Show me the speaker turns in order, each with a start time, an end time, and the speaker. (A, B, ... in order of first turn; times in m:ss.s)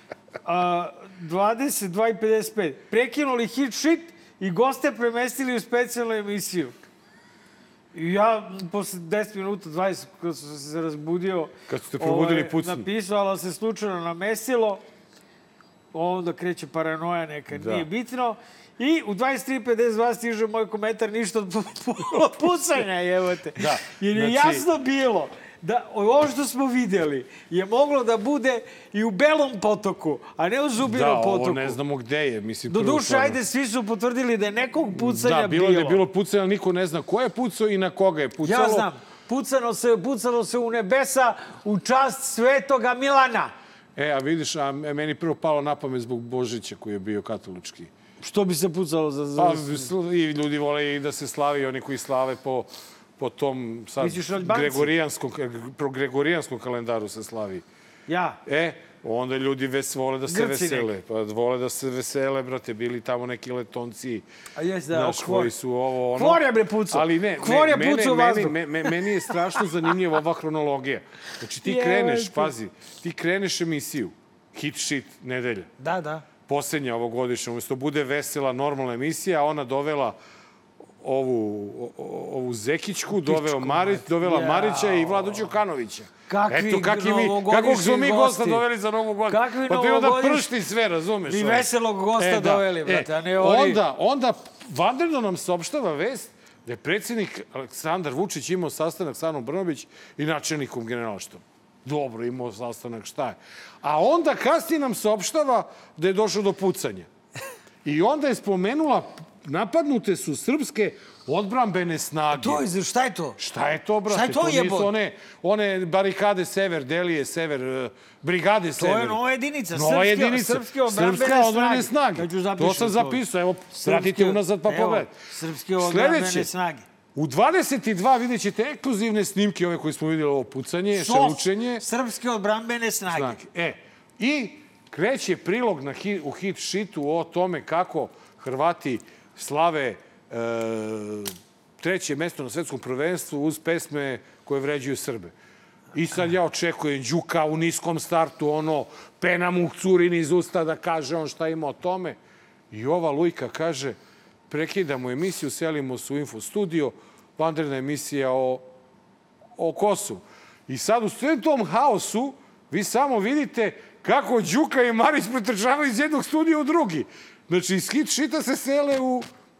0:00.4-0:06.7 A
0:07.9-0:14.8 A
0:11.7-0:12.9 B
0:15.9-0:31.8 A
0:17.5-0:17.9 B
0:23.6-0:24.6 B
0:30.8-0:33.4 B
0:32.7-0:36.0 A
0:34.9-0:38.9 B
0:38.4-0:43.5 A
0:44.0-0:47.9 B
0:48.2-0:49.9 A
0:49.4-0:57.6 B
0:54.0-0:54.9 A
0:58.1-0:58.4 A
0:58.4-1:04.2 B
1:00.3-1:00.9 A
1:04.6-1:05.5 A
1:04.9-1:15.7 B
1:06.2-1:08.9 A
1:11.6-1:12.5 A
1:15.8-1:16.2 A
1:16.5-1:20.2 B
1:21.0-1:47.1 B
1:23.1-1:25.5 A
1:26.3-1:28.6 A
1:29.3-1:30.5 A
1:31.3-1:33.8 A
1:47.8-1:52.6 B
1:52.3-1:53.4 A
1:53.4-1:59.2 B
1:54.1-1:54.9 A
1:58.8-2:03.2 A
1:59.7-2:05.1 B
2:03.7-2:06.8 A
2:05.8-2:06.5 B
2:07.1-2:11.8 B
2:10.9-2:13.4 A
2:13.1-2:25.3 B
2:25.9-2:32.2 B
2:32.7-2:34.0 B
2:34.5-2:38.6 B
2:39.6-2:49.3 B